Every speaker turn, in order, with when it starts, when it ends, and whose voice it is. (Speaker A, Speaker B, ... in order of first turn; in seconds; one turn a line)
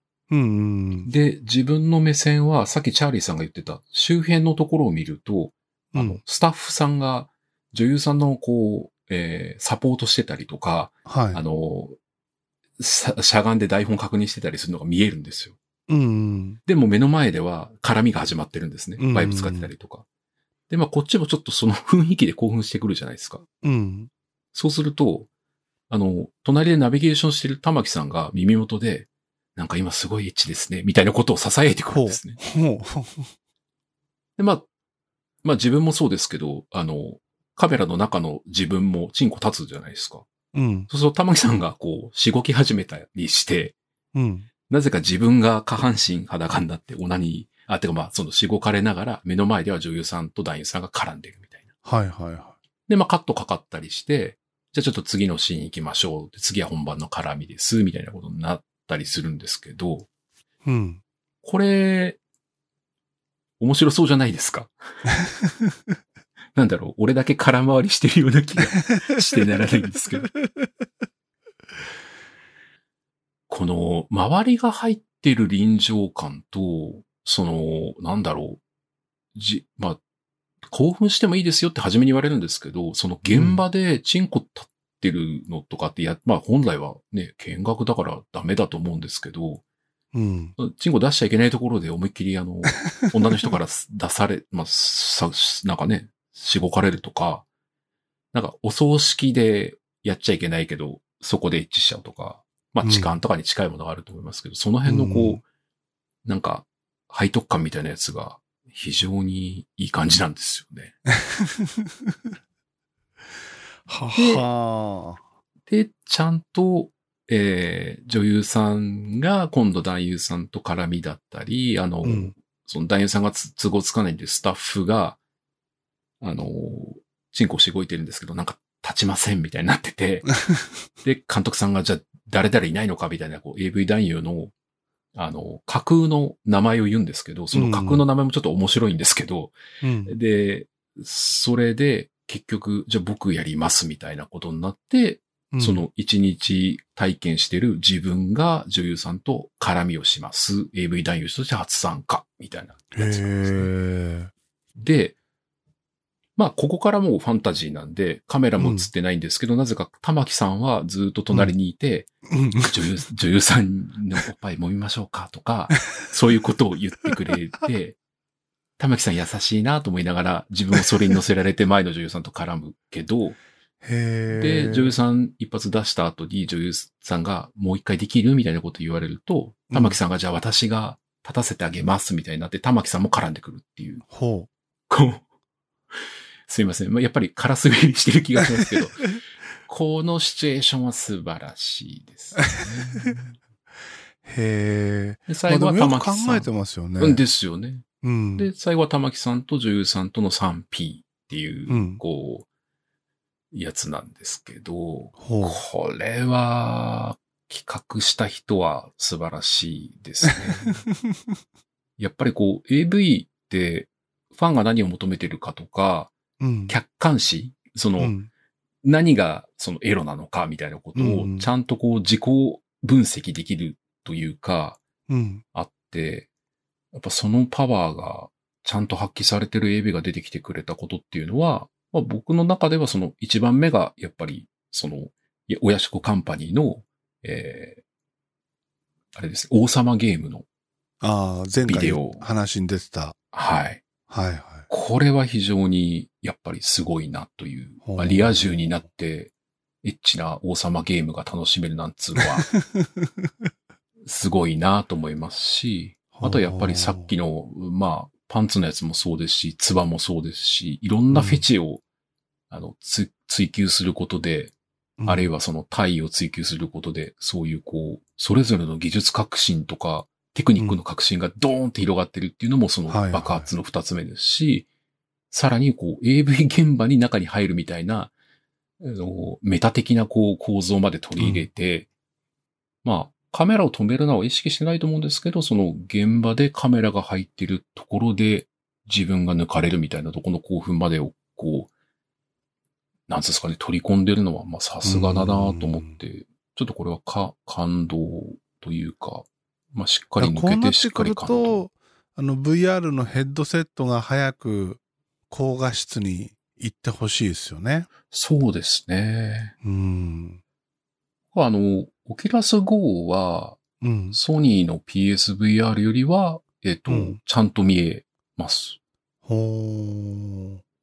Speaker A: 0.3-1.1
Speaker B: 1.0-11.9
Speaker A: 5.9-6.2
Speaker A: 11.1-11.4
Speaker B: 12.8-15.6
Speaker A: 15.9-16.6
Speaker B: 16.6-20.0
Speaker A: 19.0-19.7
Speaker B: 20.7-23.4
Speaker A: 23.6-24.1
Speaker B: 24.5-25.3
Speaker B: 25.9-32.4
Speaker A: 31.9-33.3
Speaker B: 34.4-34.6
Speaker B: 35.4-40.2
Speaker A: 40.5-40.9
Speaker B: 40.9-43.7
Speaker A: 44.1-44.5
Speaker B: 44.7-51.6
Speaker A: 51.8-52.5
Speaker B: 52.9-60.1
Speaker A: 60.6-61.0
Speaker B: 61.4-62.2
Speaker B: 63.6-64.7
Speaker B: 66.5-70.3
Speaker B: 73.5-78.6
Speaker B: 79.3-80.0
Speaker B: 80.7-89.6
Speaker A: 83.3-83.6
Speaker A: 90.1-90.5
Speaker B: 90.6-97.4
Speaker B: 98.3-105.4
Speaker A: 102.8-103.1
Speaker A: 104.8-105.4
Speaker B: 106.2-110.9
Speaker A: 111.3-112.1
Speaker A: 113.8-115.2
Speaker B: 114.1-114.4
Speaker B: 115.7-125.2
Speaker A: 122.0-122.3
Speaker B: 126.2-130.3
Speaker B: 131.0-134.5
Speaker B: 135.1-139.5
Speaker A: 137.5-138.0
Speaker A: 139.8-140.1
Speaker B: 140.1-153.7
Speaker A: 145.5-145.8
Speaker A: 152.9-154.3
Speaker B: 154.8-155.2
Speaker B: 156.3-168.0
Speaker A: 158.6-158.9
Speaker A: 162.3-162.7
Speaker B: 168.8-173.4
Speaker A: 173.8-174.9
Speaker B: 174.3-184.0
Speaker A: 179.7-180.0
Speaker A: 184.1-184.5
Speaker B: 184.9-185.2
Speaker B: 186.5-193.4
Speaker A: 194.2-197.2
Speaker B: 195.3-196.5
Speaker B: 197.0-202.4
Speaker A: 198.0-198.5
Speaker A: 201.7-202.0
Speaker B: 203.5-210.8
Speaker A: 205.2-205.6
Speaker A: 210.4-211.2
Speaker B: 212.0-216.1
Speaker A: 216.4-216.8
Speaker B: 216.7-218.1
Speaker A: 218.0-218.3
Speaker B: 218.8-224.8
Speaker A: 220.9-221.5
Speaker A: 225.1-225.4
Speaker B: 225.5-226.3
Speaker B: 226.9-237.8
Speaker B: 239.1-240.4
Speaker A: 241.0-243.2
Speaker B: 241.6-242.2
Speaker B: 243.3-243.8
Speaker A: 244.1-244.7
Speaker B: 244.7-249.3
Speaker A: 247.8-248.7
Speaker B: 249.8-252.5
Speaker A: 252.2-253.3
Speaker B: 254.0-261.8
Speaker A: 256.1-257.1
Speaker A: 261.1-261.4
Speaker B: 262.5-264.5
Speaker A: 265.0-265.3
Speaker B: 265.1-274.7
Speaker A: 272.9-273.5
Speaker B: 275.3-278.1
Speaker B: 278.8-281.9
Speaker A: 281.2-281.4
Speaker B: 282.8-291.7
Speaker B: 293.1-301.6
Speaker A: 294.8-296.0
Speaker A: 300.2-307.9
Speaker B: 308.1-309.5
Speaker A: 309.6-310.4
Speaker B: 311.3-318.8
Speaker A: 313.8-314.2
Speaker A: 316.9-317.2
Speaker A: 319.2-320.6